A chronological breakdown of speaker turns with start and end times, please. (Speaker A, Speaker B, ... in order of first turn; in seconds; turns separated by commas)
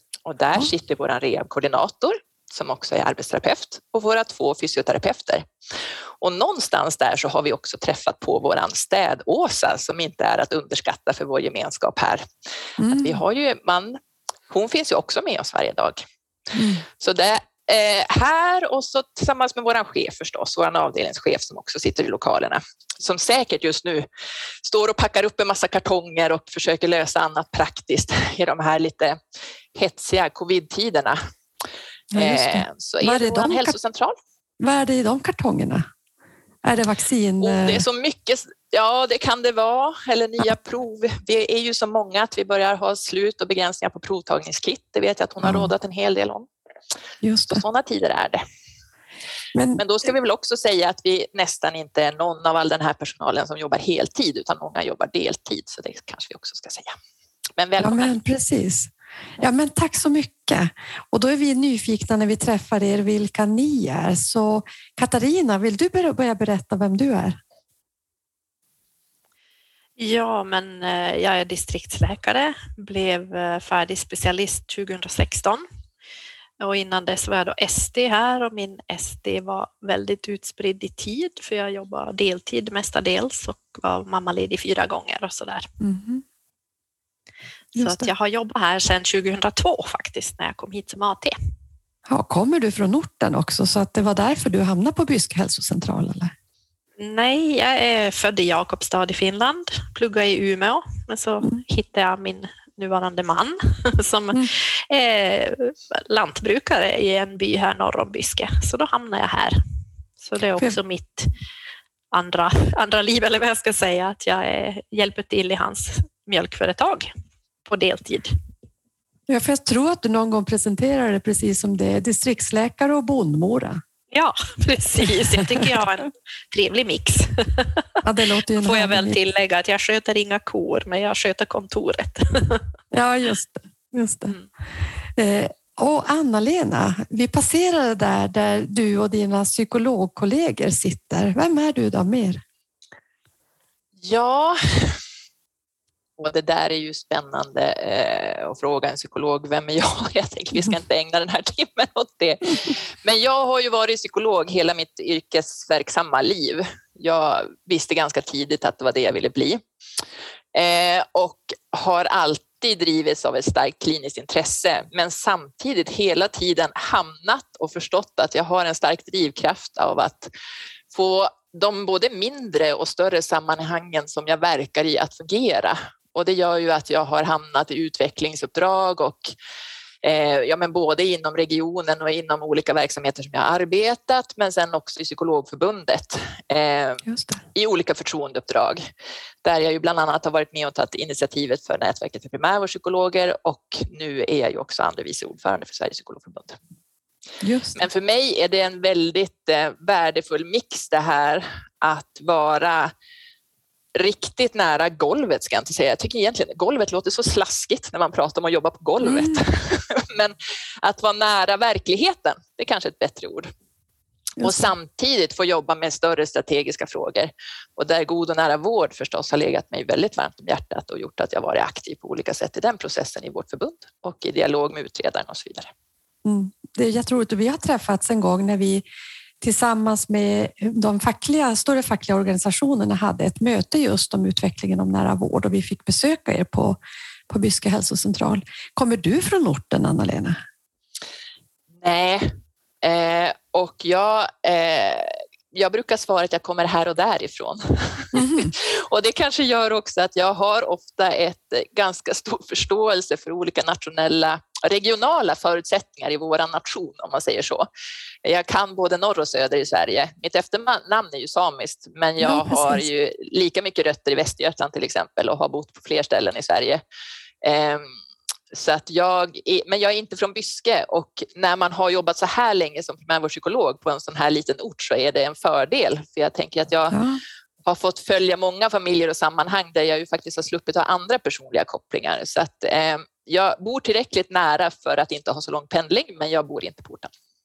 Speaker A: 0.2-5.4, Speaker A: 6.2-12.2, Speaker B: 12.8-13.2, Speaker A: 12.9-14.0, Speaker A: 14.5-16.0, Speaker B: 16.5-16.8, Speaker A: 17.0-24.1, Speaker A: 24.6-29.2, Speaker A: 29.7-31.2, Speaker B: 32.1-33.7, Speaker A: 32.1-34.2, Speaker B: 34.6-35.9, Speaker B: 36.6-37.8, Speaker A: 37.4-46.5, Speaker B: 45.4-45.7, Speaker B: 47.2-47.6, Speaker A: 47.5-48.4, Speaker B: 49.5-49.8, Speaker A: 49.8-57.0, Speaker A: 57.6-58.1, Speaker B: 57.8-67.4, Speaker C: 70.0-75.6, Speaker C: 76.6-85.7, Speaker B: 85.8-86.2, Speaker B: 87.8-88.1, Speaker C: 87.8-91.3, Speaker B: 92.1-96.3, Speaker C: 97.0-109.6, Speaker C: 110.2-111.3, Speaker C: 112.1-117.1, Speaker C: 117.7-118.3, Speaker B: 119.3-123.8, Speaker C: 124.1-127.8, Speaker B: 128.0-129.2, Speaker C: 128.6-132.6, Speaker B: 132.9-134.3, Speaker B: 135.2-142.4, Speaker A: 144.0-145.0, Speaker A: 146.2-159.6, Speaker A: 160.5-170.3, Speaker A: 170.9-179.3, Speaker A: 180.0-187.0, Speaker B: 187.0-187.4, Speaker A: 187.5-188.8, Speaker A: 189.4-196.6, Speaker B: 197.4-197.8, Speaker A: 197.8-202.9, Speaker A: 203.9-213.5, Speaker B: 209.0-209.4, Speaker B: 214.4-214.7, Speaker A: 214.4-225.7, Speaker B: 226.2-228.8, Speaker B: 229.4-240.4, Speaker A: 241.8-242.3, Speaker A: 242.8-257.7, Speaker B: 248.1-248.5, Speaker A: 258.2-266.8, Speaker B: 262.2-262.9, Speaker A: 267.4-267.9, Speaker A: 268.5-277.0, Speaker B: 276.9-277.2, Speaker A: 277.6-287.1